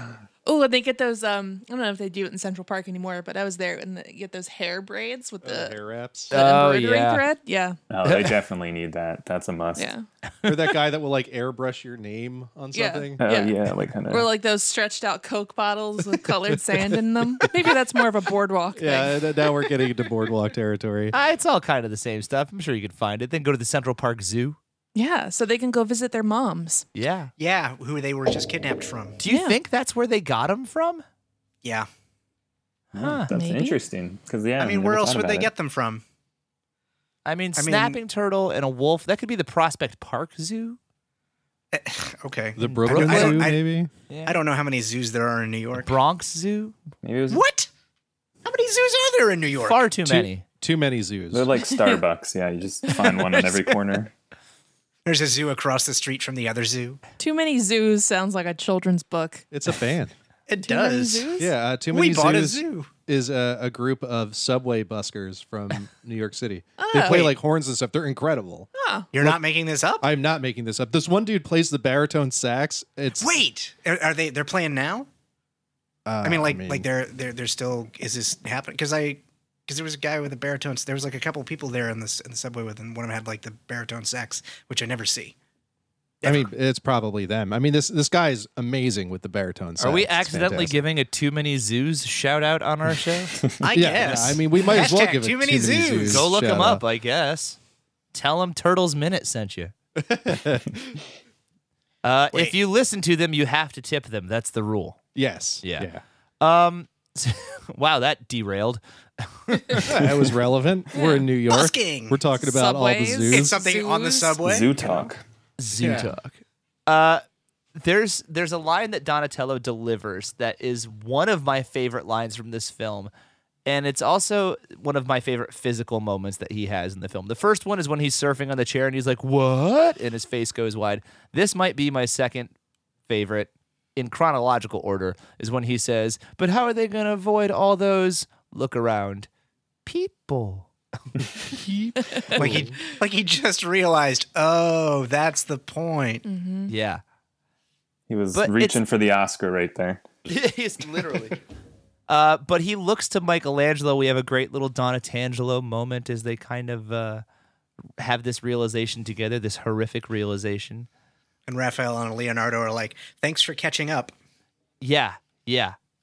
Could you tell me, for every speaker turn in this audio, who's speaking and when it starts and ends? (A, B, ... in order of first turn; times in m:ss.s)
0:00.4-0:05.8 A
0:05.4-0:06.3 B
0:06.3-0:07.8 A
0:06.3-0:07.2 C
0:07.9-0:09.9 D
0:08.0-0:08.4 C
0:09.8-0:10.0 A
0:10.4-0:13.2 B
0:12.7-0:19.9 A
0:13.2-0:14.3 D
0:16.8-0:17.7 B
0:18.8-0:21.1 B
0:21.1-0:24.6 C
0:24.9-0:26.9 A
0:26.9-0:27.3 C
0:27.4-0:29.2 E
0:29.2-0:31.0 C
0:29.2-0:29.6 A
0:32.9-0:33.3 C
0:32.9-0:35.5 D
0:33.3-0:33.8 A
0:34.6-0:36.0 E
0:37.2-0:40.8 C
0:37.6-0:38.0 E
0:41.7-0:43.6 E
0:42.6-0:43.9 B
0:42.6-0:43.5 C
0:44.1-0:44.4 C
0:44.2-0:45.9 E
0:45.8-0:46.8 C
0:47.0-0:47.4 D
0:47.3-0:47.7 E
0:48.4-0:49.8 E
0:49.6-0:50.4 C
0:50.0-0:51.5 B
0:51.3-0:54.1 D
0:52.9-0:53.4 A
0:55.0-0:57.0 E
0:57.2-0:59.5 A
0:59.5-1:00.1 B
1:00.5-1:02.9 E
1:00.6-1:01.5 A
1:01.4-1:08.7 B
1:06.8-1:07.3 A
1:07.0-1:07.3 E
1:08.8-1:09.1 A
1:09.1-1:10.1 E
1:10.0-1:13.3 B
1:13.2-1:15.1 E
1:16.0-1:16.9 B
1:16.2-1:25.4 E
1:26.2-1:26.5 E
1:26.2-1:30.8 B
1:29.8-1:33.4 C
1:33.6-1:36.2 E
1:33.7-1:36.8 B
1:36.0-1:37.6 C
1:38.1-1:39.7 C
1:40.0-1:41.0 B
1:42.0-1:45.0 C
1:45.1-1:46.0 B
1:45.6-1:45.9 C
1:46.4-1:50.0 C
1:49.7-1:53.6 B
1:50.9-1:51.2 A
1:51.5-1:52.2 E
1:52.4-1:54.4 A
1:53.3-1:55.1 E
1:54.4-1:55.2 D
1:55.6-1:57.2 C
1:55.7-1:56.1 B
1:57.7-2:03.1 C
2:03.6-2:12.5 C
2:13.1-2:19.3 C
2:19.8-2:20.7 C
2:21.6-2:22.7 B
2:22.1-2:22.6 A
2:22.3-2:26.2 E
2:26.2-2:26.7 A
2:26.7-2:27.0 C
2:28.1-2:30.0 D
2:28.3-2:28.8 C
2:30.3-2:31.4 C
2:32.1-2:37.2 C
2:38.0-2:40.9 C
2:41.5-2:44.1 E
2:44.8-2:45.8 C